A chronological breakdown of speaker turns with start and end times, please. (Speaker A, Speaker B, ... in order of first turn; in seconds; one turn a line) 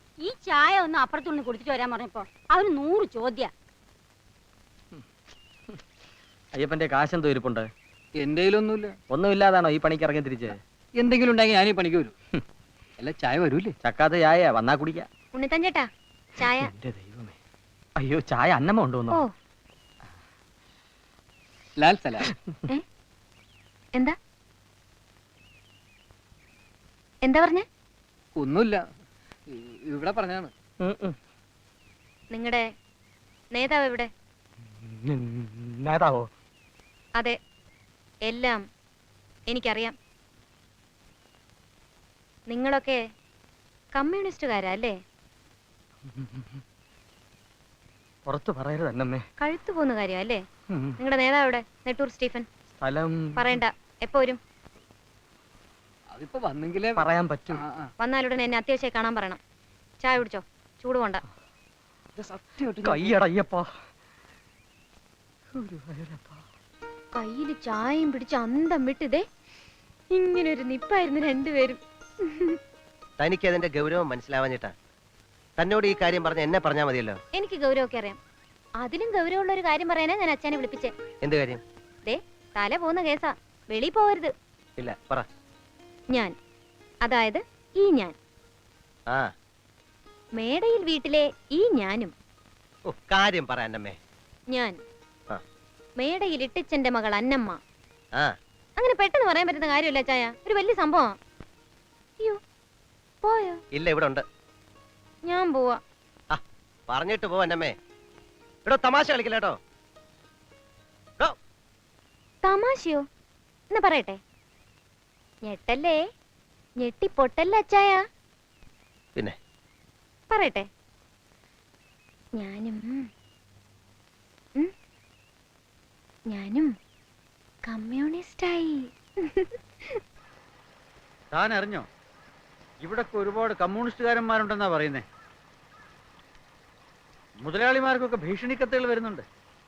Speaker A: 0.2-3.5
Speaker B: 6.5-7.7
Speaker C: 8.1-8.9
Speaker B: 9.1-10.6
Speaker C: 10.9-12.1
Speaker C: 13.0-13.7
Speaker B: 13.8-15.1
Speaker D: 15.3-15.8
Speaker D: 16.4-16.7
Speaker B: 16.6-17.3
Speaker B: 18.0-19.2
Speaker C: 21.8-22.3
Speaker D: 27.2-27.6
Speaker C: 28.4-28.8
Speaker C: 29.5-30.5
Speaker B: 30.8-31.1
Speaker D: 32.3-32.6
Speaker D: 33.5-34.1
Speaker B: 34.8-36.3
Speaker D: 38.3-38.6
Speaker D: 39.5-39.9
Speaker D: 42.5-43.0
Speaker D: 43.9-44.9
Speaker B: 48.3-49.2
Speaker D: 49.4-50.4
Speaker D: 51.0-52.5
Speaker B: 52.8-53.6
Speaker D: 53.4-54.4
Speaker C: 56.1-57.9
Speaker B: 57.0-57.6
Speaker D: 58.0-59.4
Speaker D: 60.0-61.2
Speaker C: 62.5-63.1
Speaker B: 62.8-63.7
Speaker B: 65.5-66.4
Speaker D: 67.1-69.2
Speaker D: 70.1-72.6
Speaker E: 73.2-74.7
Speaker E: 75.6-77.2
Speaker D: 77.3-78.2
Speaker D: 78.8-80.9
Speaker E: 81.2-81.6
Speaker D: 82.0-84.3
Speaker E: 84.8-85.2
Speaker D: 87.0-88.1
Speaker D: 90.4-92.1
Speaker E: 92.9-94.0
Speaker D: 96.0-97.6
Speaker D: 98.8-101.1
Speaker D: 103.2-103.6
Speaker E: 103.7-104.2
Speaker D: 105.2-105.8
Speaker E: 106.3-107.7
Speaker E: 108.7-109.5
Speaker D: 112.4-113.0
Speaker D: 113.7-114.2
Speaker D: 115.4-116.0
Speaker D: 116.8-118.0
Speaker D: 120.3-120.7
Speaker D: 122.4-123.0
Speaker D: 126.3-126.7
Speaker D: 127.7-129.5
Speaker F: 131.4-131.8
Speaker F: 132.9-135.0
Speaker F: 137.5-139.2